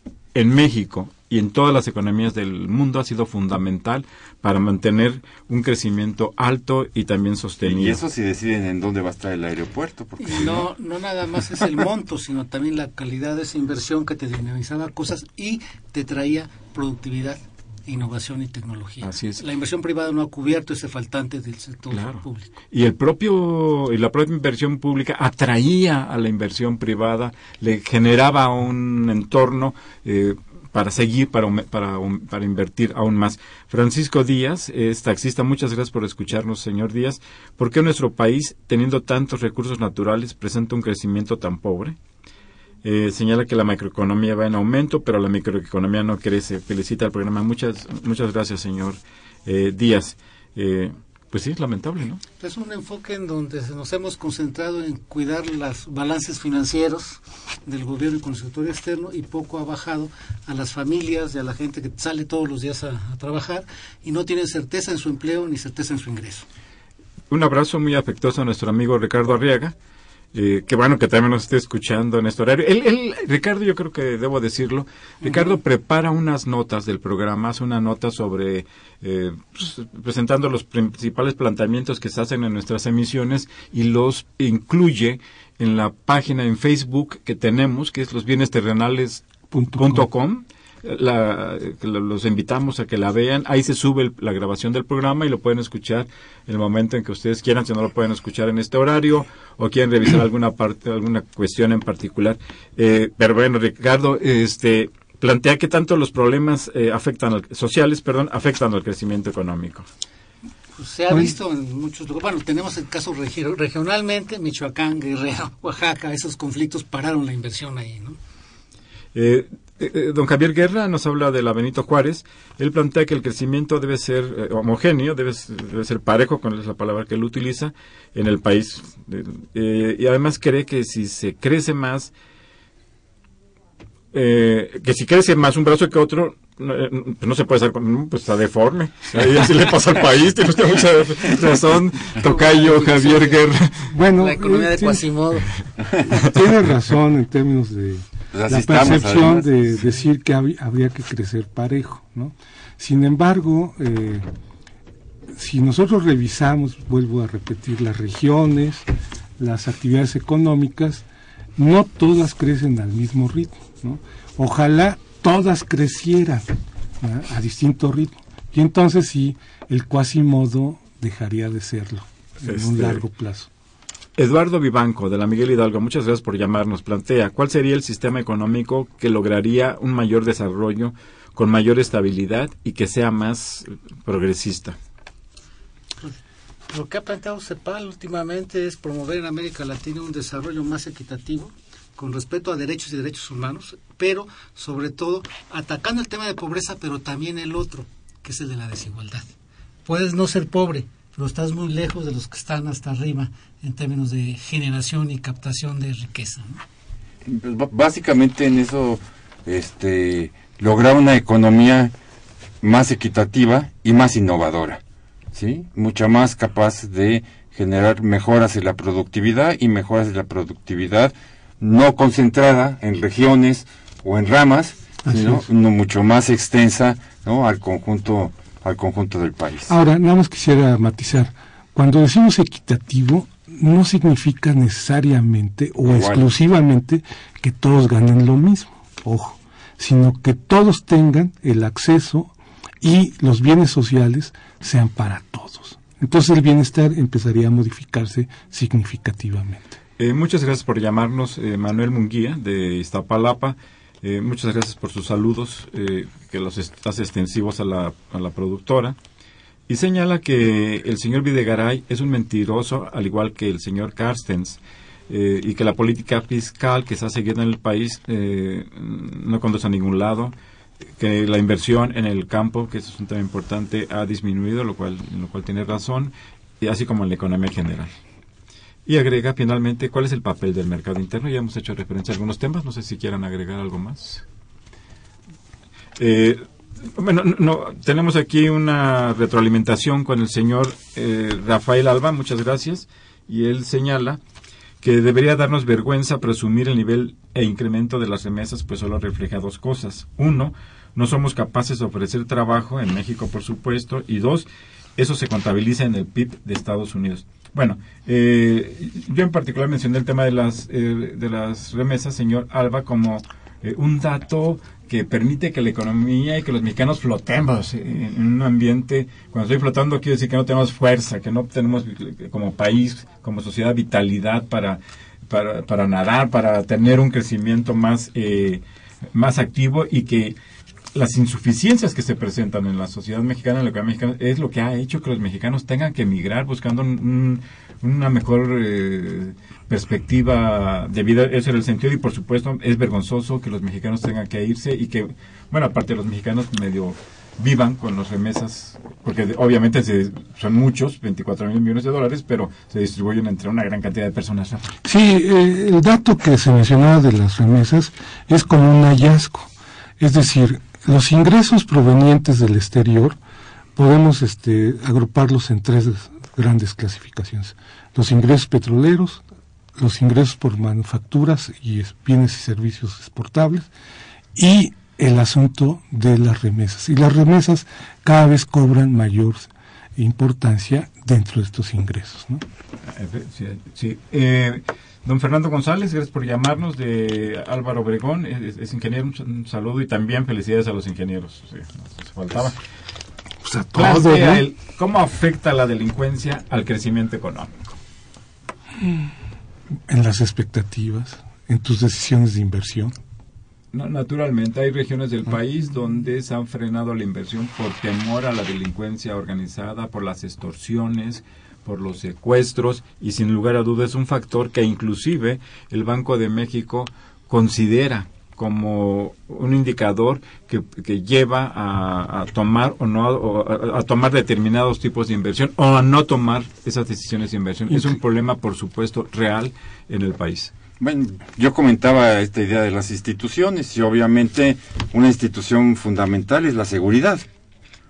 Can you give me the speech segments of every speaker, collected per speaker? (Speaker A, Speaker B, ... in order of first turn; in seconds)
Speaker A: 0.3-8.0, 19.0-19.4, 21.9-42.0, 42.8-52.2, 67.3-69.7, 70.3-109.8, 119.1-132.1, 134.1-143.9, 172.4-173.0, 174.2-184.8, 250.0-258.9, 259.7-270.3, 271.0-277.9, 278.9-284.2, 286.0-294.2, 294.8-328.6, 329.1-330.4, 330.9-354.7, 382.9-392.6, 393.7-397.8, 403.7-430.5
Speaker B: 7.6-10.6, 148.3-149.5, 207.2-211.9, 212.6-214.8, 215.3-229.7, 235.8-236.3, 430.8-437.2
Speaker C: 10.2-22.5, 52.4-66.5, 75.2-75.5, 110.8-118.2, 142.2-143.4, 144.2-145.5, 186.7-199.3, 199.8-206.6
Speaker D: 89.5-90.0, 143.9-145.0, 146.1-154.2, 155.3-158.9, 159.4-161.0, 161.6-166.5, 167.0-173.5, 225.1-225.4, 229.7-249.8, 354.8-363.2, 363.8-369.2, 369.8-373.7, 374.3-382.4, 393.4-394.4, 398.8-399.1, 399.9-402.9